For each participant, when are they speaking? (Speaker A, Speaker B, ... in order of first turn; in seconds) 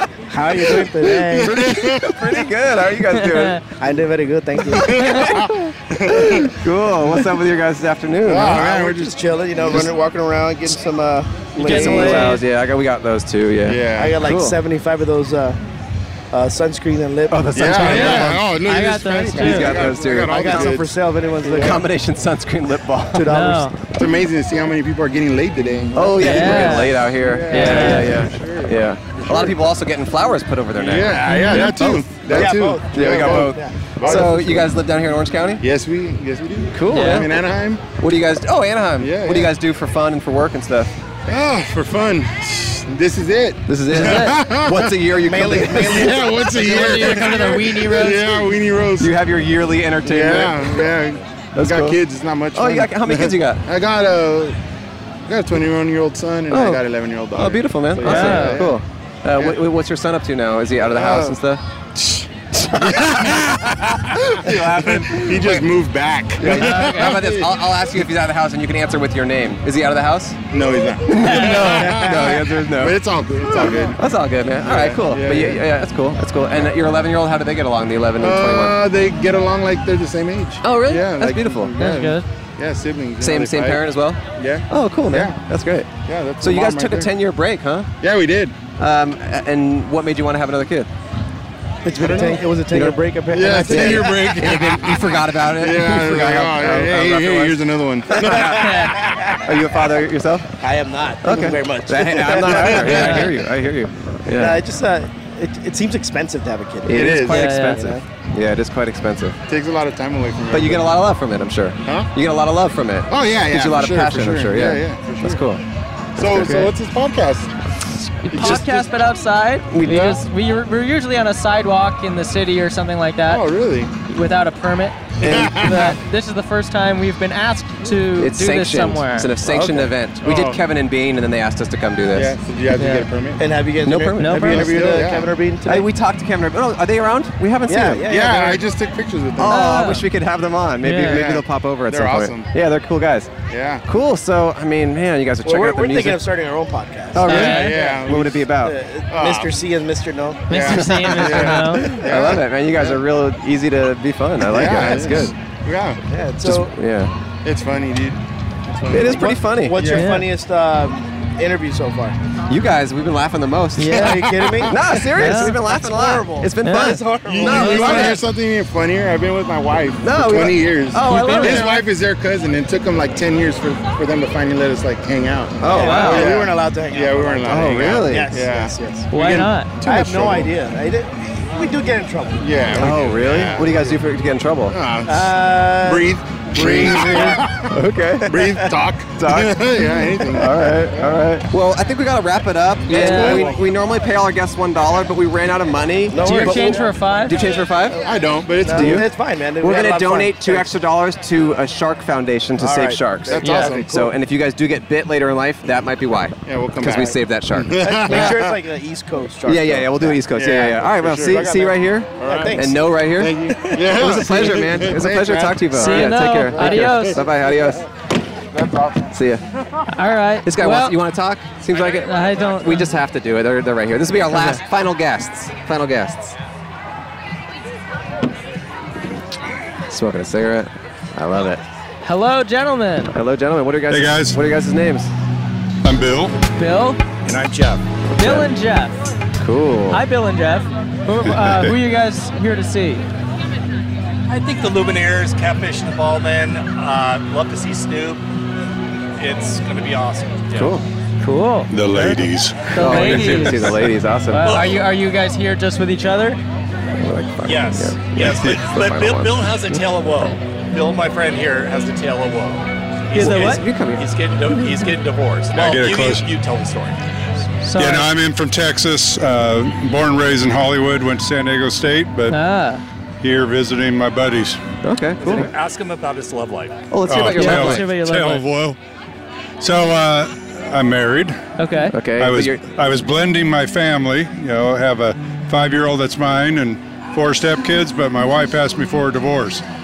Speaker A: 0.3-1.5, 3.8-4.9, 8.5-12.4, 14.0-15.6, 16.3-18.2, 20.2-21.8, 23.1-23.7, 32.3-34.5, 45.2-46.2, 91.8-94.2, 100.6-103.1, 104.3-108.0, 129.4-129.9, 133.4-135.8, 137.7-138.6, 145.4-148.0, 148.6-150.5, 156.1-156.7, 159.1-162.2, 163.9-168.2, 175.6-179.1, 179.8-182.5, 185.1-187.3, 193.1-193.5, 196.1-196.9, 197.9-200.7, 202.6-204.0, 207.8-210.6, 212.2-212.9
Speaker B: 0.5-3.6, 5.0-8.7, 9.6-9.9, 11.6-14.6, 17.3-18.5, 19.3-20.9, 21.5-23.3, 25.9-35.6, 36.7-37.3, 38.0-40.9, 43.7-46.9, 49.0-50.8, 51.5-52.0, 52.5-53.6, 56.5-61.6, 62.5-65.7, 66.4-70.4, 71.0-78.8, 80.6-81.7, 83.2-87.9, 88.8-90.9, 92.7-100.5, 101.2-104.6, 106.8-109.4, 110.5-115.6, 116.2-116.7, 118.3-118.9, 119.7-120.2, 125.2-125.9, 128.2-132.3, 133.8-135.0, 135.7-138.1, 139.4-143.3, 143.8-146.2, 147.1-148.8, 150.7-155.3, 156.4-157.1, 158.9-159.8, 162.5-168.2, 170.0-171.8, 175.6-176.4, 177.4-178.3, 182.7-184.8, 186.5-198.0, 198.7-208.3, 209.4-217.8, 219.1-219.4, 220.4-226.3, 229.9-231.6, 233.1-235.1, 238.2-238.5, 239.4-240.0, 250.5-250.9, 252.7-254.7, 256.9-259.8, 263.1-264.8, 274.8-275.5, 276.9-277.9, 281.9-282.6
Speaker C: 1.3-2.5, 4.7-6.5, 8.2-9.9, 13.6-14.2, 17.5-21.8, 23.9-29.6, 30.7-34.7, 35.6-37.8, 39.0-39.5, 41.3-49.1, 50.0-54.6, 55.3-58.8, 59.3-59.6, 60.8-61.4, 62.0-67.6, 70.5-74.0, 74.6-75.6, 76.5-76.7, 78.2-85.4, 86.0-87.2, 88.0-88.6, 92.0-92.6, 93.3-99.1, 102.4-103.3, 106.9-107.6, 109.5-111.0, 111.8-112.1, 113.1-115.4, 116.2-117.5, 118.3-118.9, 119.8-120.2, 123.3-123.9, 125.2-125.9, 130.2-130.6, 132.1-133.5, 134.3-135.3, 138.0-139.7, 141.0-142.5, 143.5-143.8, 147.3-148.6, 149.1-149.6, 150.5-153.0, 154.4-156.6, 157.4-160.2, 164.0-164.7, 167.2-180.5, 182.4-184.0, 184.7-191.2, 192.9-193.6, 198.0-199.1, 203.2-204.1, 206.4-208.6, 210.3-217.8, 218.5-219.1
Speaker D: 3.1-3.6, 11.6-12.4, 17.8-19.8, 23.2-23.8, 26.2-27.0, 27.5-28.2, 31.3-31.7, 36.9-37.3, 44.0-44.3, 46.5-48.3, 58.0-58.7, 66.5-67.2, 71.2-71.8, 81.8-82.2, 98.5-99.0, 102.8-103.3, 107.2-107.8, 118.2-123.4, 124.1-125.0, 125.5-129.3, 132.8-133.1, 134.2-134.7, 139.4-140.1, 140.8-141.3, 147.2-147.8, 150.5-151.9, 159.9-160.3, 163.8-164.2, 165.2-165.6, 166.6-167.0, 167.5-168.2, 171.0-171.8, 175.7-176.2, 179.1-179.7, 187.1-187.3, 192.9-193.5, 196.2-197.4, 215.7-217.2, 219.9-221.0, 221.8-222.9, 224.3-224.6, 232.0-233.1, 236.6-237.0, 238.2-238.9, 239.9-243.0, 251.2-256.4, 263.1-263.6, 267.6-268.1, 272.3-272.8, 277.3-278.4, 281.6-281.9
Speaker E: 233.9-234.4, 235.8-236.3, 241.2-241.7, 251.7-253.7, 265.5-266.3, 267.7-272.4, 273.2-274.7, 277.1-278.8, 279.6-281.4, 282.1-289.6
Speaker F: 237.2-237.8, 244.3-248.2, 249.2-250.7, 257.4-267.0, 275.2-276.8